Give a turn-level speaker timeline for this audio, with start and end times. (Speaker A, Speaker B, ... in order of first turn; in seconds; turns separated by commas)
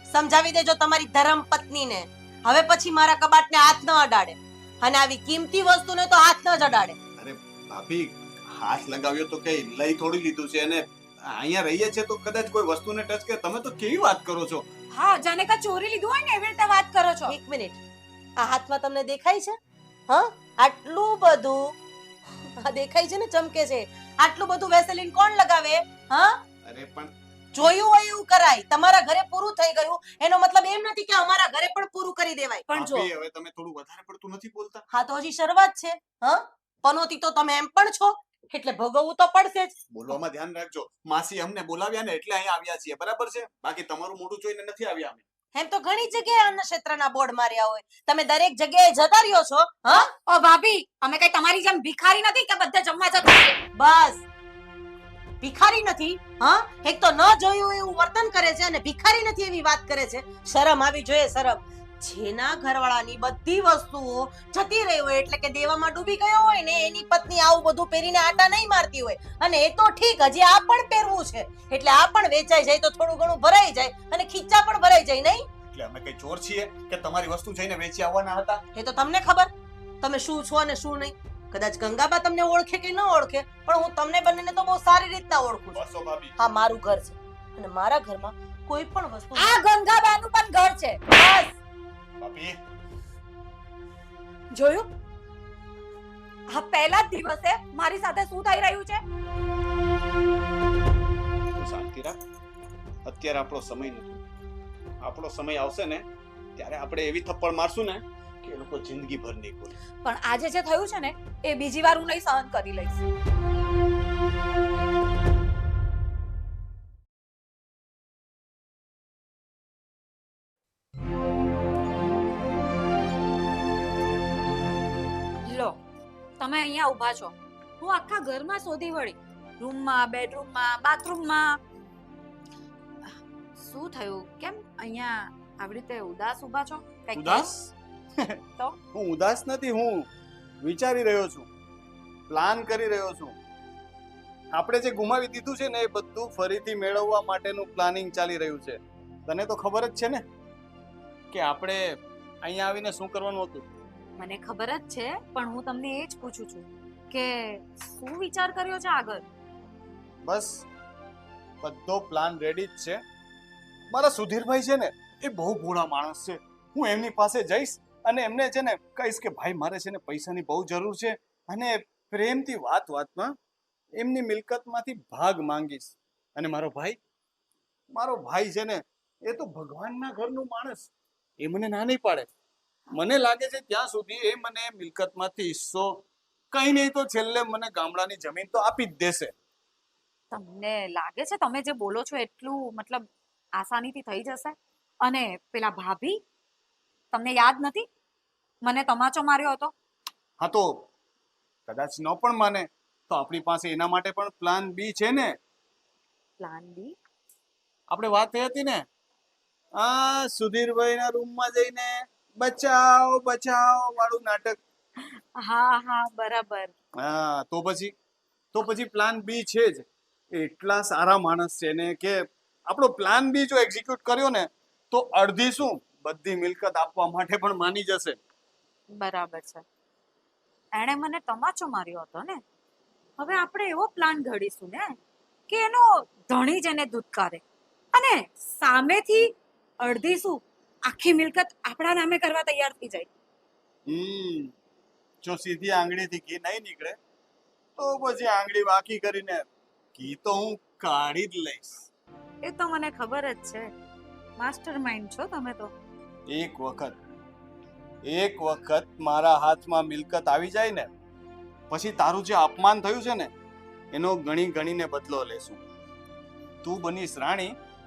Speaker A: 0.1-7.0, Speaker B: 7.2-14.7, Speaker C: 14.9-17.4, Speaker A: 17.3-17.8, Speaker A: 18.4-19.6, Speaker A: 20.1-21.7, Speaker A: 22.6-26.4, Speaker B: 26.6-27.1, Speaker A: 27.5-33.1, Speaker B: 32.7-34.9, Speaker A: 34.9-39.8, Speaker B: 39.9-45.2, Speaker A: 45.5-50.1, Speaker C: 49.9-53.6, Speaker A: 53.8-54.2, Speaker A: 55.4-75.5, Speaker B: 75.7-78.6, Speaker A: 78.8-79.5, Speaker A: 80.0-85.8, Speaker B: 85.7-86.3, Speaker A: 86.4-89.6, Speaker C: 89.4-91.0, Speaker A: 91.1-91.6, Speaker B: 92.2-92.6, Speaker C: 94.5-94.9, Speaker C: 96.5-99.0, Speaker B: 101.5-102.2, Speaker B: 103.0-104.2, Speaker B: 105.0-106.1, Speaker B: 106.6-109.8, Speaker C: 110.0-113.0, Speaker C: 125.5-125.8, Speaker C: 126.4-131.6, Speaker C: 133.6-137.5, Speaker B: 137.2-138.4, Speaker B: 138.9-140.1, Speaker B: 140.6-141.5, Speaker B: 142.3-143.4, Speaker B: 144.5-150.2, Speaker B: 151.3-151.8, Speaker B: 152.4-153.7, Speaker C: 154.2-159.2, Speaker B: 160.2-160.7, Speaker B: 161.6-163.0, Speaker B: 163.9-173.3, Speaker B: 174.0-177.0, Speaker B: 177.9-182.3, Speaker B: 182.9-189.3, Speaker C: 190.3-196.2, Speaker C: 197.1-197.9, Speaker C: 198.6-199.7, Speaker B: 200.4-200.9, Speaker B: 201.7-205.3, Speaker C: 206.4-206.9, Speaker B: 207.9-208.8, Speaker B: 209.8-214.6, Speaker C: 215.4-216.7, Speaker B: 217.0-217.9, Speaker B: 218.5-228.2, Speaker C: 228.9-229.6, Speaker C: 230.8-232.4, Speaker C: 233.2-235.0, Speaker C: 235.5-237.4, Speaker C: 237.9-243.1, Speaker B: 243.9-244.5, Speaker B: 245.2-247.0, Speaker B: 247.8-251.9, Speaker C: 252.4-253.7, Speaker C: 254.4-255.7, Speaker B: 256.3-257.0, Speaker B: 258.1-260.9, Speaker B: 261.7-263.3, Speaker B: 263.9-265.6, Speaker B: 266.6-267.6